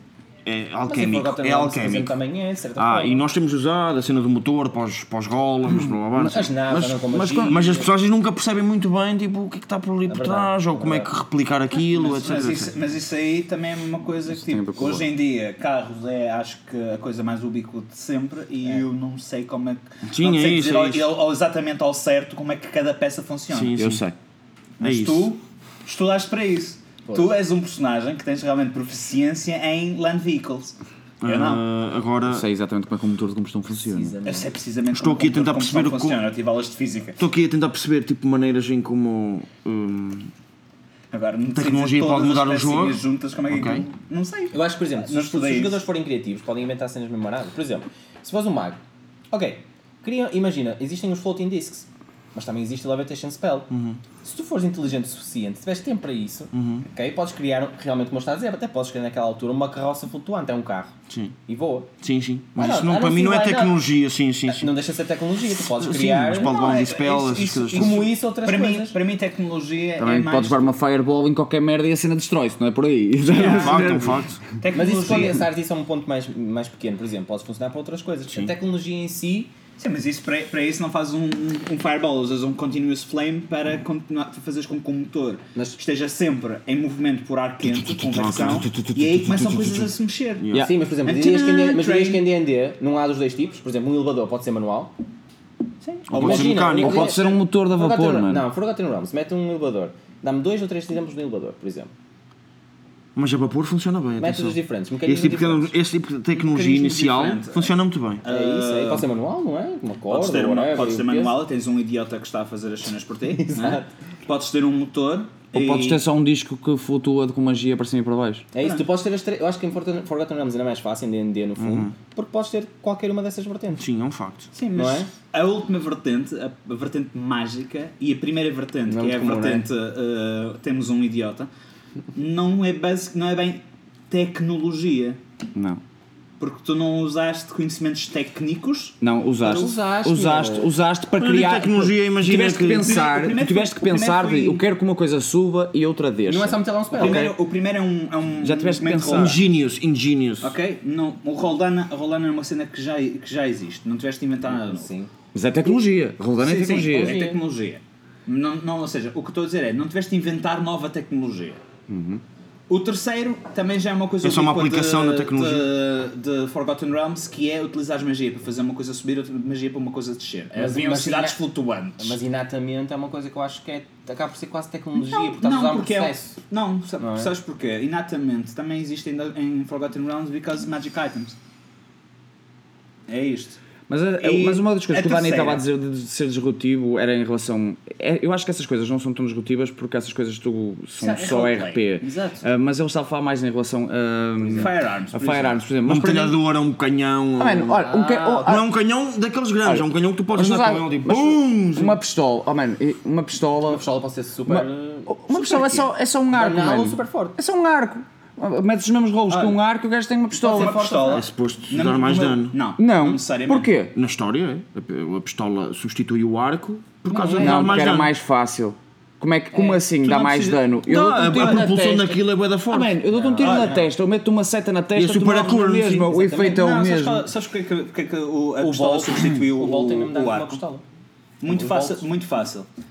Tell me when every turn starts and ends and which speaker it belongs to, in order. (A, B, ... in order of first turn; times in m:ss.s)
0:00.4-0:02.1 A
0:00.8-0:03.2 B
0:02.8-0:12.7 A
0:06.2-0:07.9 B
0:10.0-0:11.1 B
0:11.8-0:23.8 C
0:14.3-0:15.1 D
0:20.0-0:21.1 A
0:23.5-0:24.1 A
0:23.8-0:24.1 D
0:24.8-0:31.6 C
0:24.8-0:25.3 A
0:27.0-0:27.3 B
0:31.2-0:32.4 A
0:32.3-0:34.1 D
0:33.8-0:34.5 B
0:34.2-0:37.2 C
0:34.9-0:36.2 A
0:37.2-0:40.3 A
0:41.1-0:45.8 C
0:41.5-0:43.8 A
0:44.5-0:48.8 B
0:49.3-0:53.7 B
0:53.7-0:54.0 A
0:54.2-1:00.9 B
0:56.5-0:56.8 A
1:01.1-1:01.3 A
1:01.5-1:01.9 B
1:02.0-1:04.7 A
1:02.5-1:03.8 B
1:04.5-1:06.6 B
1:05.6-1:08.1 A
1:06.4-1:10.7 C
1:07.7-1:09.0 B
1:10.0-1:14.2 D
1:13.3-1:14.0 C
1:13.3-1:14.4 A
1:14.6-1:15.4 C
1:14.7-1:19.5 B
1:19.8-1:30.5 C
1:27.6-1:30.7 A
1:30.5-1:34.9 B
1:31.0-1:32.2 C
1:35.8-1:36.6 C
1:36.1-1:37.1 A
1:36.1-1:41.9 B
1:36.7-1:38.4 D
1:43.1-1:48.2 A
1:44.2-1:45.7 B
1:46.3-1:49.0 C
1:48.2-1:51.4 B
1:50.1-1:56.0 C
1:53.3-1:53.9 B
1:55.5-1:58.4 D
1:58.5-2:03.8 B
2:01.6-2:01.9 A
2:03.8-2:04.5 A
2:04.5-2:11.5 C
2:04.7-2:05.1 B
2:08.9-2:09.6 B
2:12.1-2:15.2 C
2:15.5-2:15.8 D
2:16.4-2:19.0 C
2:19.0-2:27.3 D
2:19.4-2:20.7 B
2:21.2-2:23.0 A
2:22.7-2:24.6 C
2:26.3-2:27.3 B
2:26.9-2:29.4 C
2:28.4-2:29.4 D
2:29.1-2:30.5 A
2:30.4-2:34.9 C
2:34.5-2:35.1 B
2:35.3-2:37.2 D
2:36.4-2:41.6 C
2:36.7-2:37.4 B
2:41.9-2:42.2 D
2:42.7-2:52.2 C
2:44.2-2:45.7 A
2:50.5-2:51.4 B
2:52.0-2:56.4 B
2:55.1-3:01.4 C
2:57.0-2:57.3 B
3:03.1-3:03.6 C
3:03.9-3:16.4 D
3:04.2-3:05.6 C
3:11.0-3:11.4 B
3:11.0-3:12.4 C
3:14.5-3:15.6 C
3:15.8-3:17.8 A
3:17.4-3:18.6 D
3:17.7-3:18.6 B
3:18.4-3:22.0 A
3:19.6-3:23.8 D
3:23.6-3:25.2 B
3:24.4-3:30.8 D
3:25.3-3:25.9 C
3:26.3-3:27.4 B
3:29.3-3:29.6 C
3:30.4-3:31.3 B
3:30.4-3:33.7 C
3:31.1-3:32.6 A
3:32.8-3:33.9 D
3:33.9-3:38.1 A
3:37.1-3:37.8 B
3:37.4-3:47.3 D
3:39.5-3:39.8 B
3:40.0-3:40.7 C
3:40.8-3:42.9 A
3:41.3-3:41.6 C
3:43.1-3:43.9 B
3:43.4-3:43.8 C
3:44.9-3:46.1 A
3:46.1-3:50.6 C
3:48.6-3:50.8 B
3:51.4-3:52.7 C
3:51.5-3:52.0 B